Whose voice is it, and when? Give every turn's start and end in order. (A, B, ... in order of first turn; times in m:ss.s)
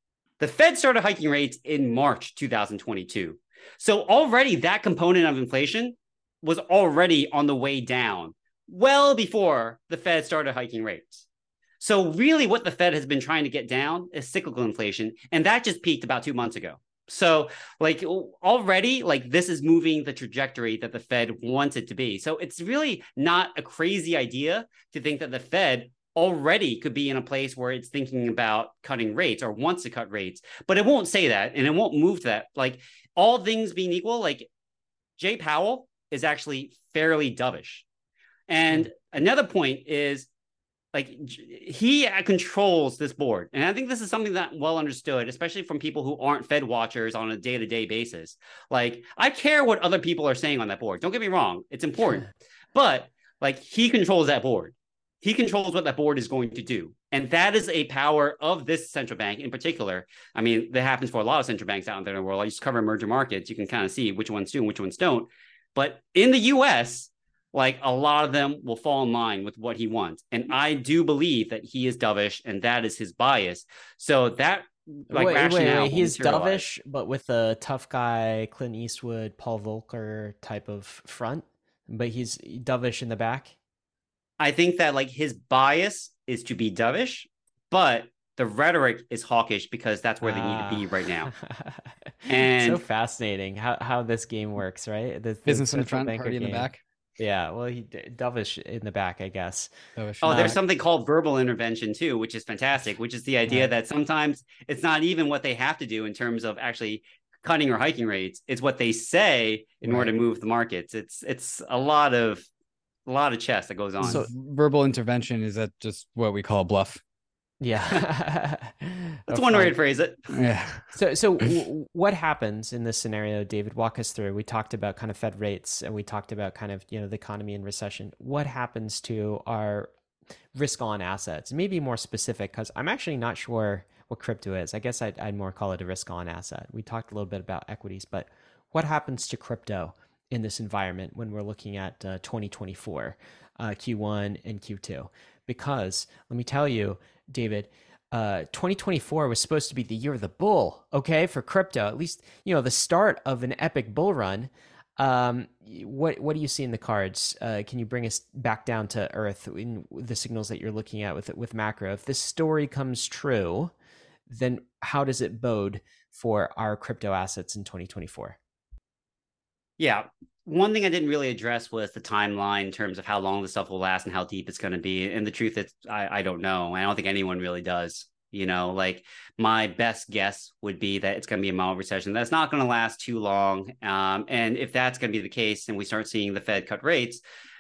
0:00.4-0:11.2 A
0:11.8-0:34.5 A
0:35.2-0:37.8 A
0:38.5-0:40.3 A
0:40.9-1:16.7 A
1:15.1-1:23.6 B
1:24.4-1:31.3 A
1:30.2-1:40.6 B
1:32.3-1:32.8 A
1:35.4-1:36.8 C
1:40.0-1:40.6 C
1:40.2-1:52.5 A
1:53.1-1:54.2 A
1:54.0-1:54.3 B
1:54.0-1:57.0 C
1:57.6-1:59.7 B
1:59.3-2:00.3 A
2:00.3-2:00.9 C
2:00.9-2:09.9 B
2:10.5-2:43.7 B
2:44.3-2:48.4 B
2:49.8-3:07.2 A